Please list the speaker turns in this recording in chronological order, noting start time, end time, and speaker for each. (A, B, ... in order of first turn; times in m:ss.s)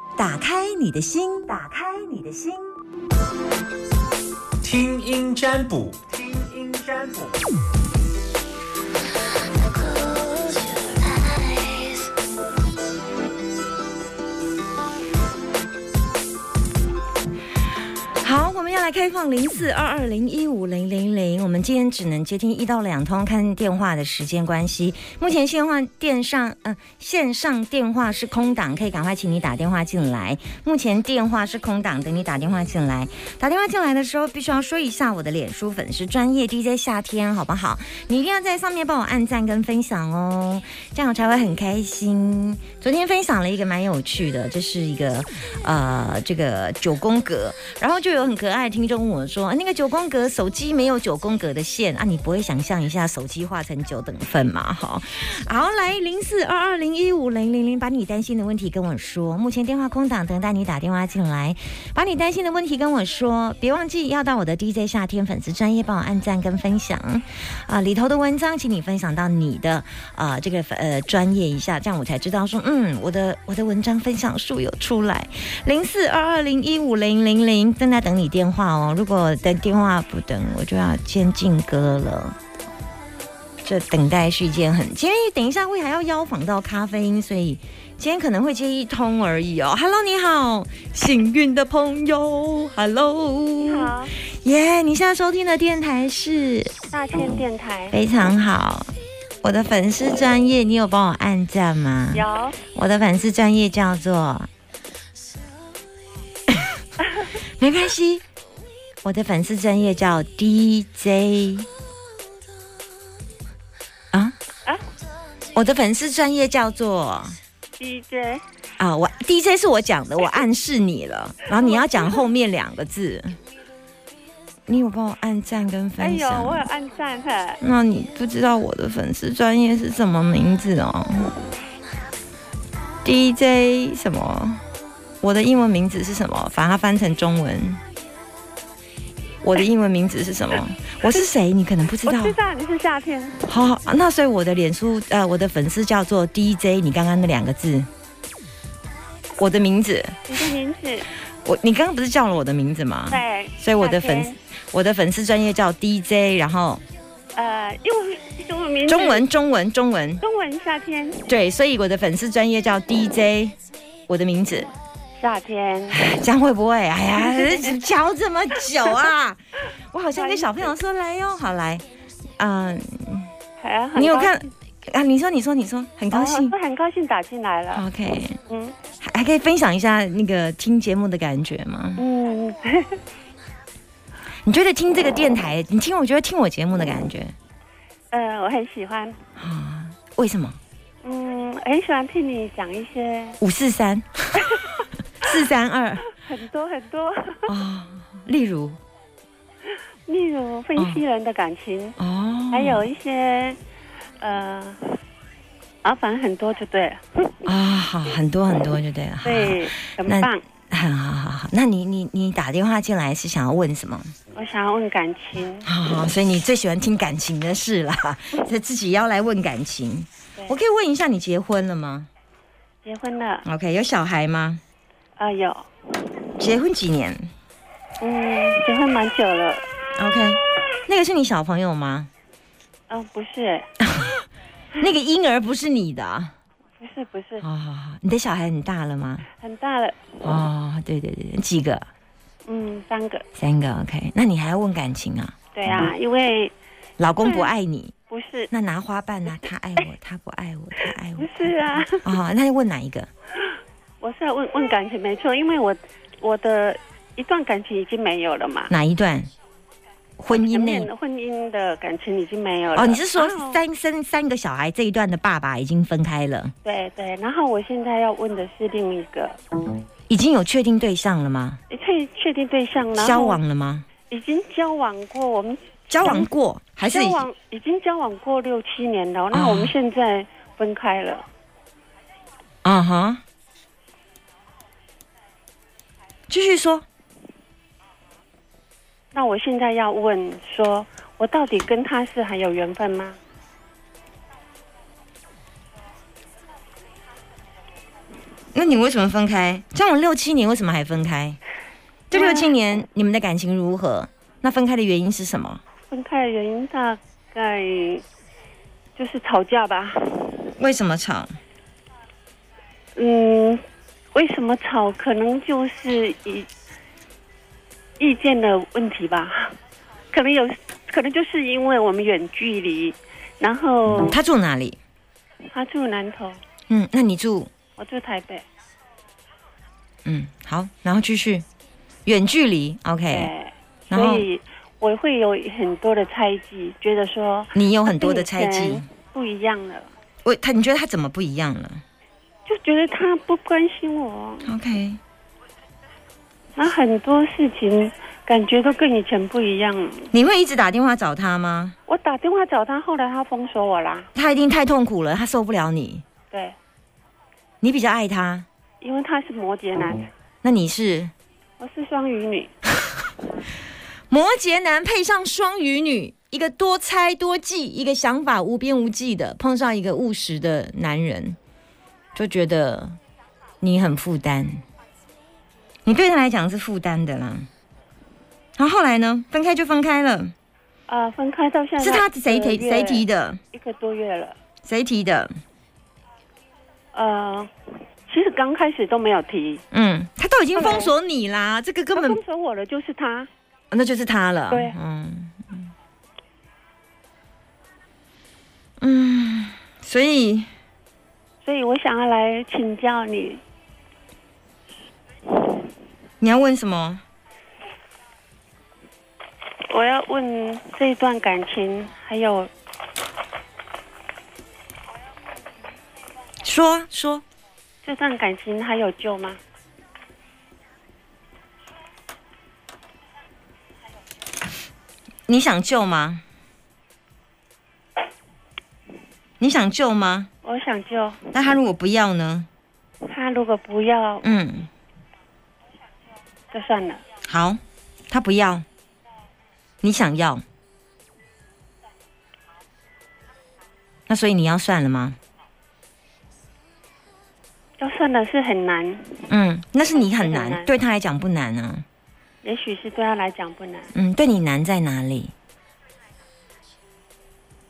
0:00.2-0:02.7 A
0:04.6-0:07.4 B
0:18.2-1:22.4 A
1:23.6-1:36.7 A
1:33.6-1:34.1 C
1:36.9-1:38.0 C
1:37.9-1:38.9 A
1:39.4-1:44.5 A
1:42.1-1:42.6 C
1:47.6-1:48.2 A
1:49.0-1:51.7 A
1:55.5-1:57.4 A
1:57.8-1:58.4 C
1:58.8-2:03.4 A
2:01.5-2:01.8 C
2:04.7-2:06.6 A
2:06.0-2:07.6 C
2:07.6-2:11.3 A
2:13.0-2:14.6 A
2:15.2-2:17.8 A
2:19.4-2:22.4 A
2:22.0-2:23.5 C
2:23.4-2:27.9 A
2:29.4-2:30.2 A
2:30.3-2:31.0 C
2:31.4-2:36.8 A
2:33.1-2:34.4 C
2:37.3-2:39.2 C
2:38.9-2:40.2 A
2:40.2-2:41.2 C
2:41.3-2:43.6 A
2:44.1-2:44.7 A
2:45.2-2:46.0 C
2:45.9-2:49.4 A
2:47.2-2:47.7 C
2:49.9-2:51.8 A
2:50.2-2:50.8 C
2:52.4-2:53.3 A
2:53.6-2:54.5 C
2:53.9-2:56.5 A
2:56.1-2:57.8 C
2:57.7-2:58.4 A
2:58.5-2:58.8 C
2:59.0-3:02.0 A
3:02.0-3:03.0 C
3:04.4-3:07.3 A
3:08.1-3:09.2 C
3:09.4-3:10.6 A
3:11.0-3:13.4 C
3:13.4-3:14.6 A
3:15.2-3:16.1 A
3:16.1-3:17.4 C
3:17.5-3:18.8 A
3:20.1-3:22.0 C
3:20.8-3:21.0 A
3:22.0-3:22.8 A
3:22.5-3:23.6 C
3:24.2-3:25.0 C
3:25.8-3:27.4 C
3:27.4-3:34.1 A
3:29.2-3:30.4 C
3:34.3-3:35.7 C
3:35.6-3:42.1 A
3:42.8-3:43.4 C
3:43.4-3:44.6 A
3:45.2-3:45.7 C
3:46.4-3:47.3 A
3:48.0-3:49.7 C
3:50.0-3:52.1 A
3:52.9-3:53.7 C
3:53.8-3:54.2 A
3:54.8-3:56.3 A
3:56.8-3:57.4 C
3:57.4-3:59.3 A
3:59.4-4:00.3 C
4:00.2-4:01.9 A
4:02.4-4:03.2 C
4:03.3-4:05.3 A
4:05.5-4:06.5 C
4:07.0-4:07.9 A
4:07.2-4:07.5 C
4:08.1-4:08.5 C
4:08.5-4:13.1 A
4:11.2-4:12.1 C
4:14.0-4:18.7 C
4:18.7-4:19.3 A
4:20.2-4:20.9 A
4:20.3-4:23.6 C
4:22.7-4:26.5 A
4:26.6-4:29.4 C
4:30.1-4:31.6 A
4:31.7-4:33.4 C
4:33.0-4:33.8 A
4:34.1-4:36.3 C
4:35.9-4:37.3 A
4:36.8-4:41.2 C
4:39.3-4:39.7 A
4:42.6-4:43.2 A
4:46.3-4:46.8 A
4:49.1-4:53.2 C
4:58.5-5:01.4 A
5:02.1-5:05.6 A
5:02.1-5:02.5 C
5:05.9-5:08.0 C
5:09.0-5:10.4 C
5:10.6-5:11.3 A
5:12.9-5:13.6 C
5:14.1-5:16.5 C
5:18.0-5:19.6 C
5:20.1-5:24.2 C
5:24.0-5:24.8 A
5:25.5-5:26.4 C
5:26.7-5:27.5 A
5:27.8-5:28.4 C
5:30.0-5:31.4 A
5:32.0-5:33.3 A
5:33.1-5:39.9 C
5:33.9-5:34.3 A
5:37.5-5:38.8 A
5:40.2-5:41.8 A
5:42.4-5:44.5 C
5:44.4-5:45.0 A
5:46.6-5:50.1 C
5:50.1-5:51.8 A
5:51.9-5:54.1 C
5:54.1-5:56.0 A
5:56.3-5:56.6 C
5:57.6-5:58.4 A
5:58.8-6:00.1 C
6:00.4-6:01.1 A
6:01.6-6:02.5 C
6:04.1-6:11.4 A
6:12.1-6:13.0 A
6:13.6-6:14.6 A
6:15.8-6:17.5 A
6:18.6-6:20.3 A
6:20.9-6:24.4 C
6:21.8-6:23.4 A
6:24.6-6:25.3 A
6:26.9-6:27.5 C
6:28.0-6:29.6 C
6:29.7-6:32.2 A
6:30.5-6:30.9 C
6:31.9-6:33.3 C
6:33.7-6:35.7 A
6:34.5-6:34.8 C
6:38.8-6:40.5 A
6:41.4-6:43.4 C
6:46.2-6:47.0 A
6:49.6-6:52.5 C
6:56.4-6:57.2 A
6:57.8-6:59.4 C
7:05.3-7:06.2 A
7:09.4-7:10.3 A
7:10.4-7:11.2 C
7:11.3-7:12.5 A
7:13.0-7:14.3 C
7:14.2-7:14.7 A
7:16.5-7:17.0 C
7:17.2-7:18.6 A
7:19.8-7:20.4 A
7:24.1-7:25.2 A
7:27.8-7:29.2 C
7:29.3-7:31.8 A
7:30.0-7:30.7 C
7:32.4-7:33.9 C
7:33.9-7:35.3 A